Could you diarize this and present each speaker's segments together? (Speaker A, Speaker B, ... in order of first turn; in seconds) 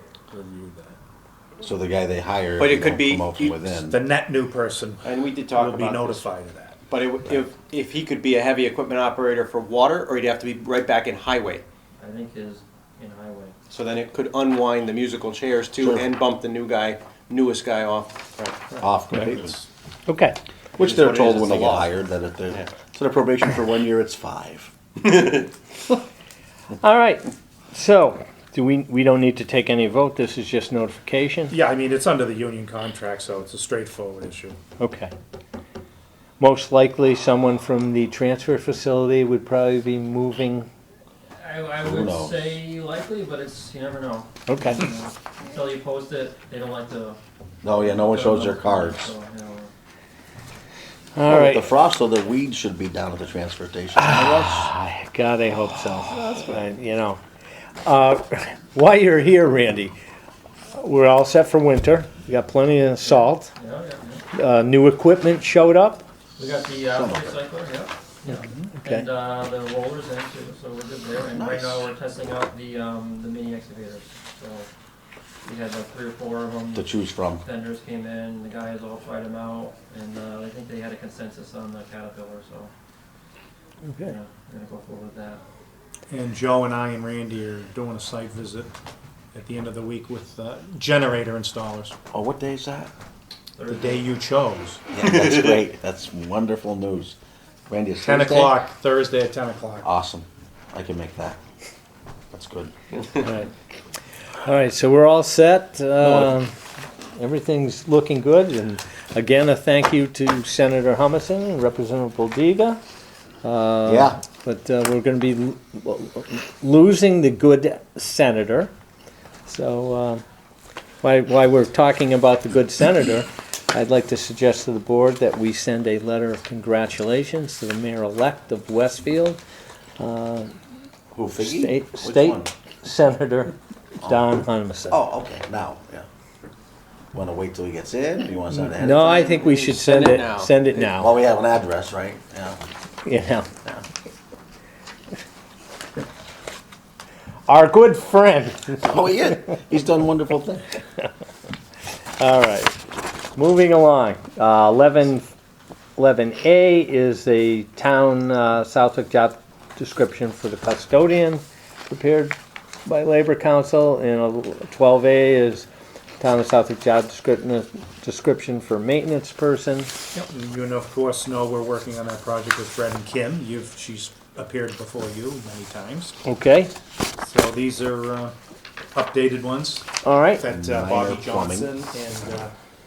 Speaker A: 0.3-0.9, 3.9-6.8, 31.5-34.6, 86.1-88.7, 89.3-91.9, 93.7-94.8, 98.0-99.9, 170.1-176.2, 177.2-178.3, 178.9-182.5
Speaker B: 1.6-4.0, 15.8-16.1, 18.8-19.6, 20.8-24.7, 41.8-42.5, 47.6-49.1, 51.3-54.7, 66.9-67.4, 71.3-71.8, 76.7-77.4, 92.1-92.9, 94.9-97.2, 97.7-98.6, 99.8-101.4, 102.3-102.7, 106.0-106.3, 113.8-114.2, 131.1-132.5, 134.0-136.1, 137.1-139.2, 140.8-142.6, 148.8-150.7, 180.5-181.7
Speaker C: 2.6-3.7, 5.0-6.2, 6.9-11.6, 13.7-18.7, 20.8-22.0, 25.0-25.5, 56.1-56.6, 138.9-140.6
Speaker D: 12.0-13.5, 41.3-49.7, 63.5-64.2, 66.4-74.7, 75.4-82.7, 84.0-85.4, 93.5-94.1
Speaker E: 20.1-20.4, 26.8-31.5, 34.8-35.1, 36.4-40.7, 44.5-44.9, 51.1-51.7, 54.0-57.2, 57.8-59.9, 60.7-63.5, 64.3-66.0, 68.3-69.1, 83.9-84.1, 103.2-103.5, 104.4-106.5, 107.2-112.8, 113.4-118.7, 119.5-120.2, 121.0-129.4, 130.0-130.5, 131.4-135.0, 138.7-141.1, 143.0-143.5, 147.5-149.0, 152.2-152.8, 153.3-155.3, 156.0-165.7, 166.2-169.9, 176.2-176.7, 180.0-180.4